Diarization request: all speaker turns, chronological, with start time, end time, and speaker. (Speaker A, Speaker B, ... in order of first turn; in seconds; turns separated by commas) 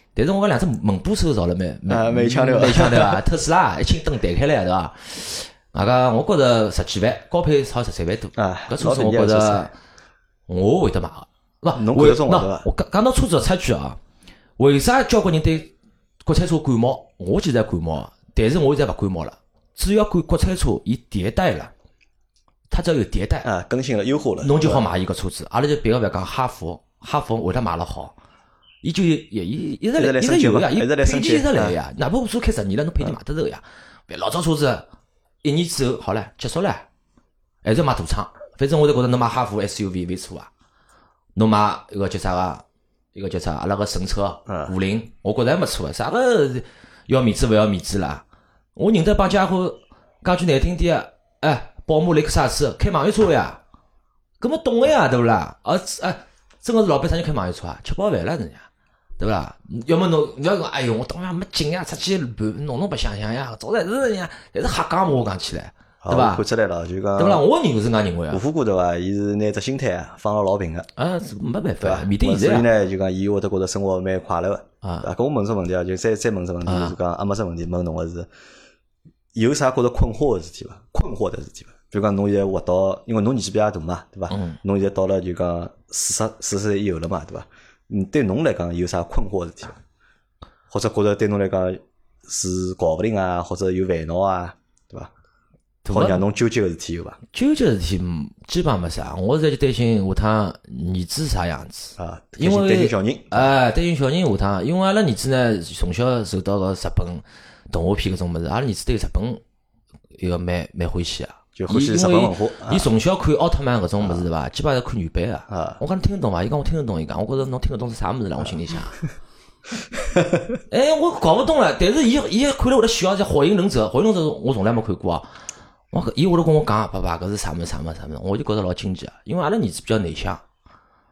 Speaker A: 0.1-9.7, Speaker B: 1.9-3.2, Speaker B: 8.4-9.7, Speaker A: 10.5-14.0, Speaker B: 11.7-12.7, Speaker A: 14.6-21.7, Speaker A: 22.7-23.5, Speaker B: 23.4-24.9, Speaker A: 24.4-28.1, Speaker A: 28.8-34.9, Speaker B: 29.9-31.8, Speaker A: 35.4-36.9, Speaker A: 37.6-40.5, Speaker A: 41.4-42.6, Speaker A: 43.1-48.2, Speaker B: 44.5-44.7, Speaker A: 48.8-53.6, Speaker A: 54.4-58.7, Speaker A: 59.2-66.4, Speaker B: 66.0-67.4, Speaker A: 67.2-68.4, Speaker B: 68.3-70.9, Speaker A: 71.0-72.7, Speaker B: 71.8-78.3, Speaker A: 74.8-75.1, Speaker A: 76.7-77.0, Speaker B: 79.3-89.8, Speaker A: 84.3-84.6, Speaker B: 90.7-95.1, Speaker A: 95.8-96.2, Speaker B: 95.9-97.2, Speaker A: 97.3-109.4, Speaker B: 102.0-103.5, Speaker A: 110.2-119.0, Speaker B: 111.5-112.9, Speaker B: 114.0-114.2, Speaker B: 115.5-115.8, Speaker B: 119.9-120.6, Speaker A: 120.7-125.3, Speaker A: 125.9-130.4